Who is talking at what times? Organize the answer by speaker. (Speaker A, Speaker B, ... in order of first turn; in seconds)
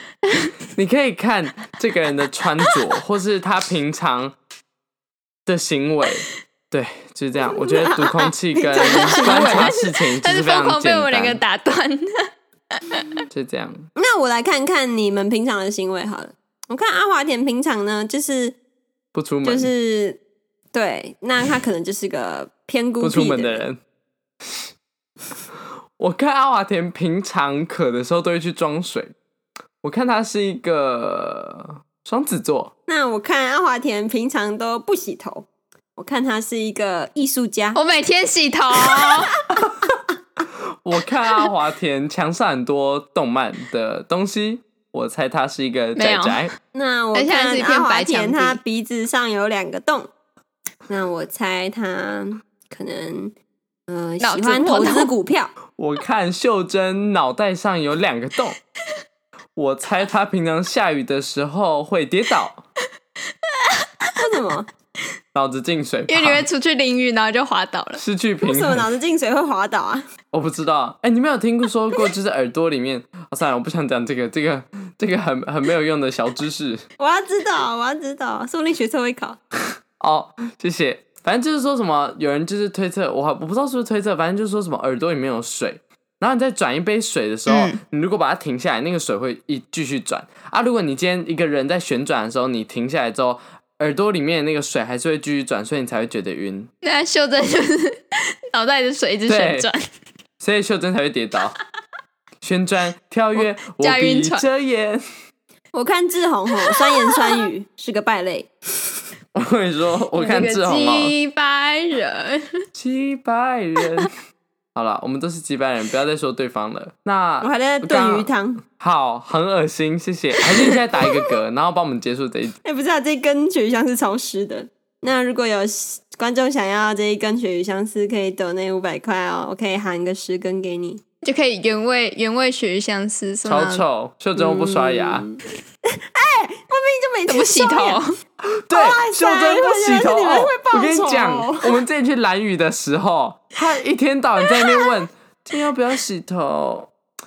Speaker A: 0.7-4.3, 5.5-11.4, 13.3-13.8, 19.1-19.7, 23.0-23.8, 26.0-29.1, 29.8-32.7, 40.8-46.5, 55.8-58.6, 59.5-62.6, 65.3-66.4, 68.0-68.8, 70.3-76.8, 80.0-96.7, 99.3-99.7, 100.4-101.5, 102.4-105.0, 109.3-111.1, 112.7-114.1, 114.7-122.5, 133.4-135.2, 138.6-146.9
Speaker B: 7.9-9.7, 13.9-18.6, 19.4-20.2, 20.7-23.6, 32.9-37.8, 46.7-50.1, 50.9-53.3, 53.9-55.5, 64.2-64.7, 68.4-70.0, 77.0-79.4, 105.7-108.5, 117.4-118.6, 122.6-131.0, 134.3-135.4, 135.9-138.0, 138.7-141.8
Speaker C: 8.8-12.1, 12.8-13.1, 37.7-39.3, 46.0-46.5, 47.1-48.6, 54.2-55.1, 63.6-64.2, 66.1-68.0, 87.5-87.8, 96.8-97.9, 98.5-99.8, 103.3-104.4, 110.2-112.4, 131.2-133.8, 137.3-138.1